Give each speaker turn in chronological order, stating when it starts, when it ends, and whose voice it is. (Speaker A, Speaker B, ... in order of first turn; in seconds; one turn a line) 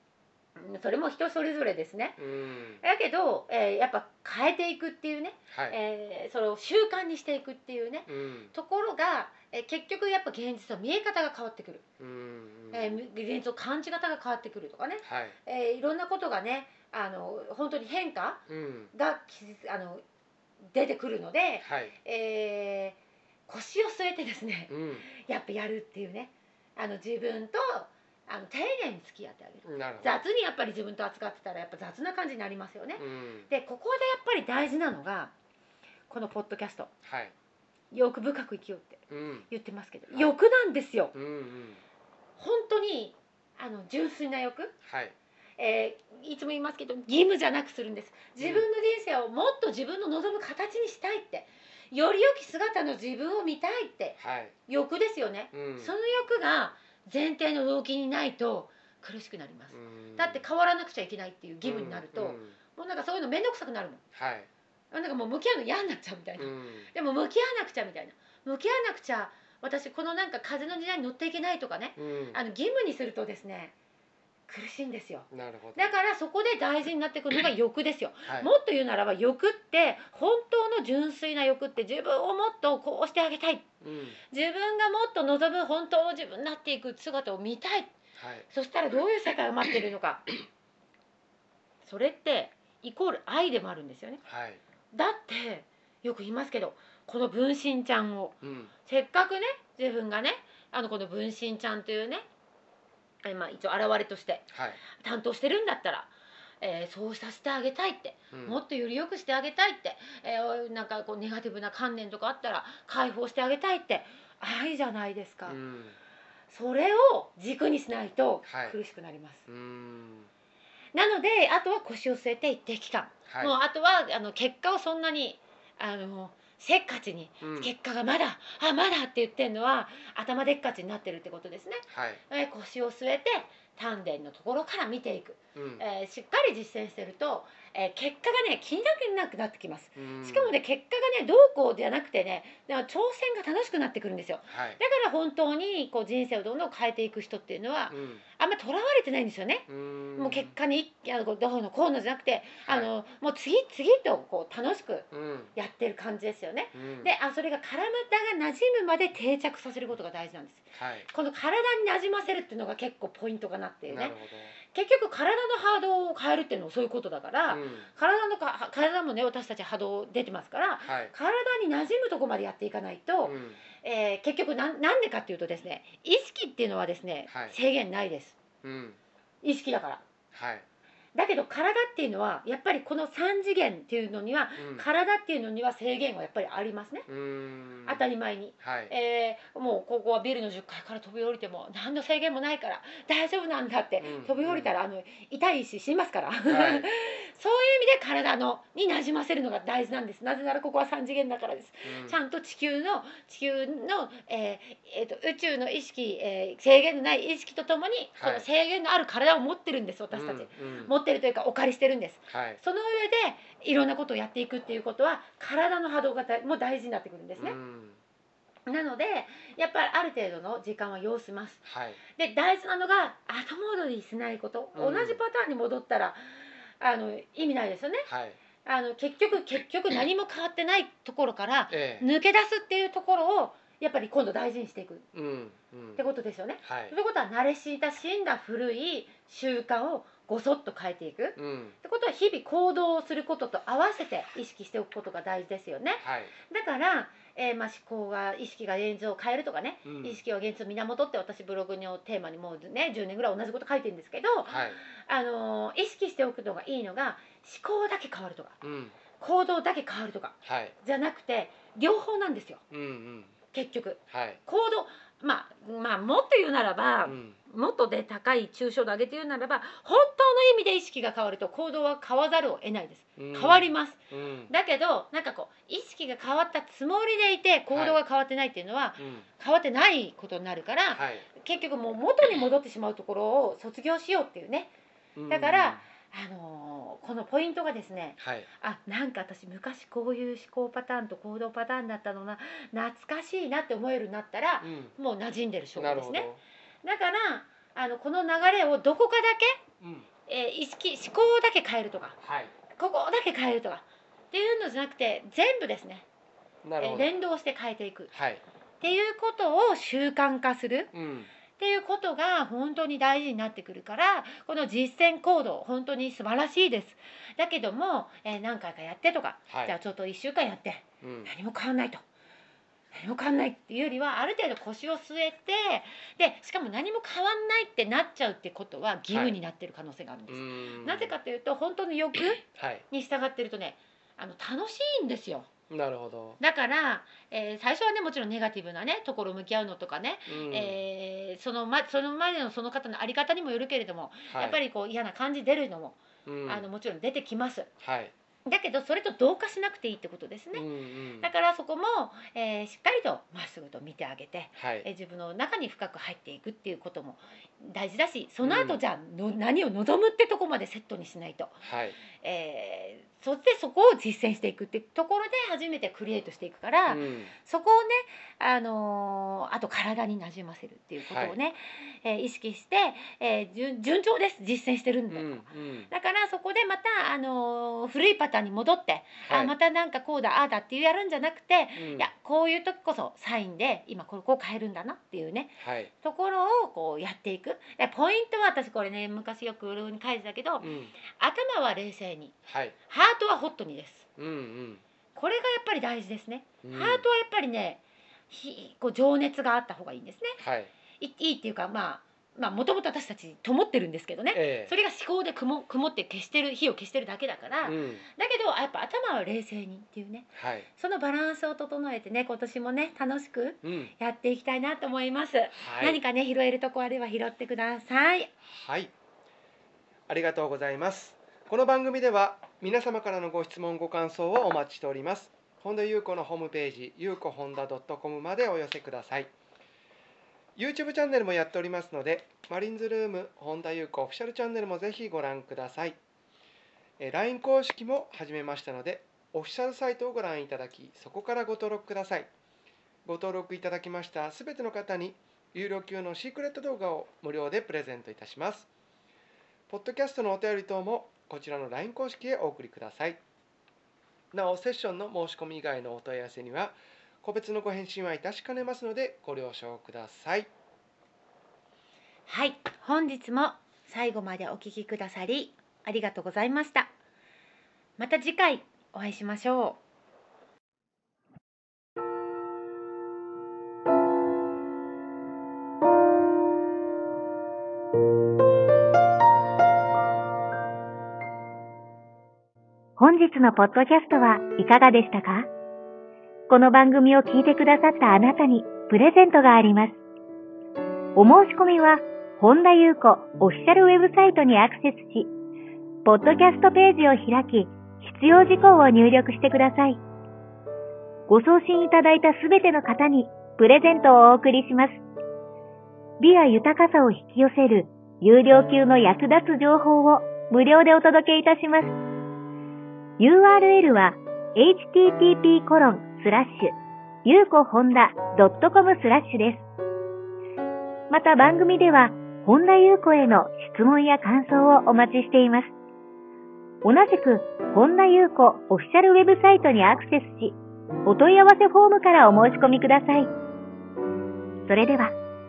Speaker A: 0.6-2.2
Speaker B: 2.2-2.8
Speaker A: 2.8-11.8
Speaker B: 5.5-5.8
Speaker B: 8.1-8.5
Speaker B: 12.0-13.0
Speaker A: 12.7-20.0
Speaker B: 15.0-15.3
Speaker B: 18.5-18.9
Speaker A: 20.7-23.0
Speaker B: 21.6-21.9
Speaker A: 23.5-35.3
Speaker B: 24.7-25.1
Speaker B: 29.6-30.2
Speaker B: 33.0-33.5
Speaker A: 36.1-36.9
Speaker B: 37.0-37.3
Speaker A: 37.9-41.1
Speaker B: 39.1-39.5
Speaker B: 40.1-40.3
Speaker B: 41.1-41.8
Speaker A: 42.4-44.7
Speaker B: 44.8-45.1
Speaker A: 45.6-64.0
Speaker B: 48.4-48.7
Speaker B: 54.2-54.5
Speaker B: 55.5-55.9
Speaker B: 59.7-60.4
Speaker B: 61.6-62.5
Speaker B: 64.1-64.5
Speaker A: 64.9-73.7
Speaker B: 66.4-66.9
Speaker B: 72.0-72.4
Speaker A: 74.5-83.7
Speaker B: 75.3-75.9
Speaker B: 83.8-84.2
Speaker A: 84.3-87.9
Speaker B: 88.2-88.5
Speaker A: 88.5-90.3
Speaker A: 91.8-94.2
Speaker B: 94.2-94.6
Speaker A: 94.9-102.2
Speaker B: 98.4-98.7
Speaker A: 103.2-115.6
Speaker B: 104.5-104.8
Speaker B: 108.3-108.6
Speaker B: 115.5-116.0
Speaker A: 116.5-119.4
Speaker B: 118.5-118.8
Speaker B: 119.5-120.3
Speaker A: 120.9-178.4
Speaker B: 123.3-123.5
Speaker B: 127.4-127.7
Speaker B: 131.9-132.2
Speaker B: 135.6-135.8
Speaker B: 140.0-140.6
Speaker B: 144.5-144.8
Speaker B: 147.9-148.2
Speaker B: 149.7-150.5
Speaker B: 155.1-155.5
Speaker B: 156.7-157.1
Speaker B: 160.8-161.1
Speaker B: 163.9-164.5
Speaker B: 167.5-167.9
Speaker B: 170.8-171.1
Speaker B: 173.2-173.6
Speaker B: 177.3-177.5
Speaker B: 178.6-179.0
Speaker A: 179.4-180.0
Speaker B: 180.3-180.6
Speaker A: 181.1-187.1
Speaker B: 184.6-184.8
Speaker B: 187.1-188.0
Speaker A: 187.8-217.6
Speaker B: 188.6-188.9
Speaker B: 194.0-194.7
Speaker B: 196.4-196.9
Speaker B: 201.8-202.2
Speaker B: 208.2-208.4
Speaker B: 210.1-210.9
Speaker B: 212.3-212.6
Speaker B: 217.3-218.0
Speaker A: 218.7-226.2
Speaker B: 221.7-222.0
Speaker B: 224.7-225.2
Speaker A: 226.8-228.1
Speaker B: 228.1-228.4
Speaker A: 228.6-235.1
Speaker B: 231.7-232.1
Speaker B: 235.1-236.0
Speaker A: 236.0-258.6
Speaker B: 236.6-236.9
Speaker B: 241.3-241.8
Speaker B: 246.0-246.3
Speaker B: 249.8-250.2
Speaker B: 254.5-254.8
Speaker B: 258.6-258.9
Speaker A: 259.2-262.6
Speaker B: 260.4-260.7
Speaker B: 262.7-263.3
Speaker A: 263.5-284.7
Speaker B: 264.1-264.4
Speaker B: 267.0-267.4
Speaker B: 273.2-274.5
Speaker B: 277.7-278.0
Speaker B: 279.0-279.3
Speaker B: 280.9-281.2
Speaker B: 285.1-285.8
Speaker A: 285.3-296.3
Speaker B: 288.2-288.5
Speaker B: 294.6-294.9
Speaker B: 295.7-296.4
Speaker A: 296.8-299.6
Speaker B: 299.8-300.1
Speaker A: 300.3-302.2
Speaker B: 302.2-302.5
Speaker A: 302.8-306.0
Speaker B: 306.6-307.1
Speaker A: 306.8-308.1
Speaker B: 308.1-308.4
Speaker A: 308.8-310.9
Speaker B: 310.9-311.3
Speaker A: 311.6-322.0
Speaker B: 319.5-319.7
Speaker B: 321.0-321.3
Speaker A: 322.9-335.5
Speaker B: 329.1-329.4
Speaker B: 330.3-331.1
Speaker B: 332.5-332.8
Speaker B: 335.7-336.4
Speaker A: 336.4-347.7
Speaker B: 340.3-340.8
Speaker B: 344.3-344.6
Speaker B: 346.2-346.6
Speaker B: 347.8-348.1
Speaker A: 348.4-350.7
Speaker B: 350.5-351.3
Speaker A: 351.2-392.3
Speaker B: 354.6-354.9
Speaker B: 358.4-358.8
Speaker B: 361.6-362.0
Speaker B: 366.9-367.3
Speaker B: 371.0-371.4
Speaker B: 375.1-375.9
Speaker B: 379.2-379.5
Speaker B: 381.8-382.1
Speaker B: 385.6-385.9
Speaker B: 390.6-390.9
Speaker B: 392.5-392.8
Speaker A: 392.9-394.1
Speaker B: 394.2-394.8
Speaker A: 395.1-400.4
Speaker B: 396.6-397.0
Speaker B: 400.4-400.7
Speaker A: 401.0-418.3
Speaker B: 404.3-404.7
Speaker B: 407.6-408.0
Speaker B: 410.4-410.7
Speaker B: 413.6-413.9
Speaker B: 415.5-416.0
Speaker B: 418.4-418.9
Speaker B: 420.1-429.3
Speaker B: 430.6-436.0
Speaker B: 437.0-442.3
Speaker B: 443.0-448.7
Speaker B: 449.7-453.2
Speaker B: 454.3-460.5
Speaker A: 462.3-466.9
Speaker A: 468.0-469.8
Speaker C: 483.0-485.5
Speaker C: 486.5-490.0
Speaker C: 491.1-495.3
Speaker C: 496.0-500.0
Speaker C: 501.3-505.0
Speaker C: 506.2-511.9
Speaker C: 513.2-516.7
Speaker C: 517.2-519.6
Speaker C: 521.1-525.7
Speaker C: 526.8-533.3
Speaker C: 534.6-535.1